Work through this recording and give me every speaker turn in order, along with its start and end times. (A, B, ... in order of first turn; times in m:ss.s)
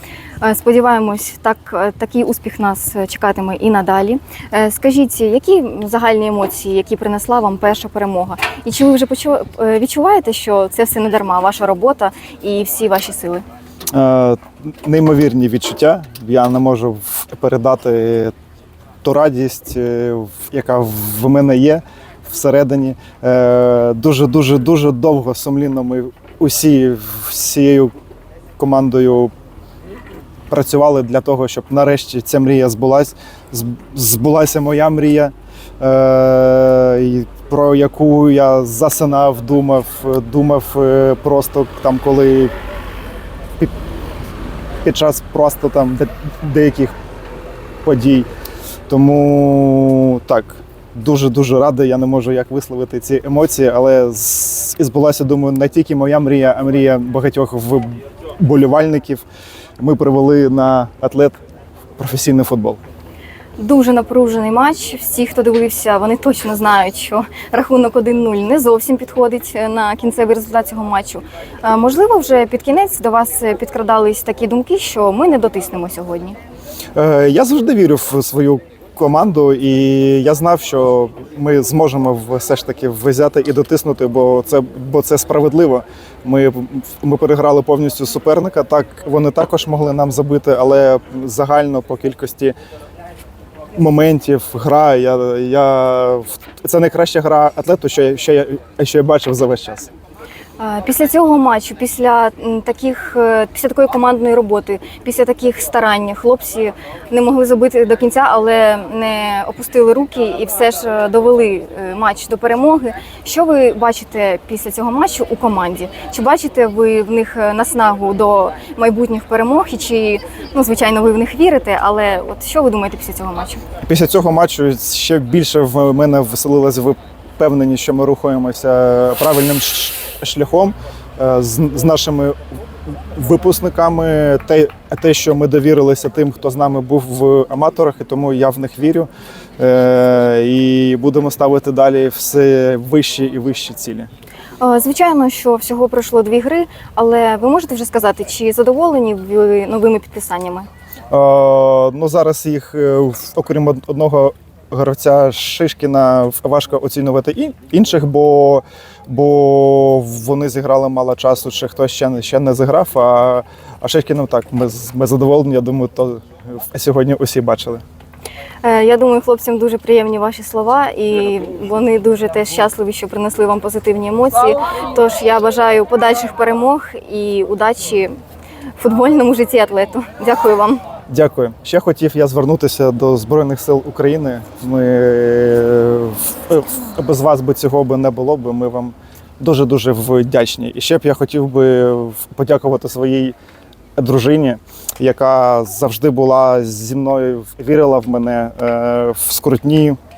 0:00.4-0:13.4 A
0:13.9-0:18.3 B
0:19.0-0:27.9 B
0:28.6-0:29.3 B
0:30.5-0:42.5 B
0:44.8-0:47.0 B
0:47.8-0:48.3 B
0:48.9-0:59.2 B
0:59.8-1:01.4 B
1:02.0-1:02.8 B
1:03.6-1:16.4 A
1:16.9-1:32.5 B
1:33.8-1:39.9 B
1:40.6-2:03.6 A
2:03.8-2:12.4 B
2:12.9-2:24.1 B
2:24.6-2:30.7 A
2:31.1-2:47.8 B
2:48.6-2:58.1 A
2:58.8-3:00.8 A
3:01.1-3:13.4 B
3:14.0-3:20.0 B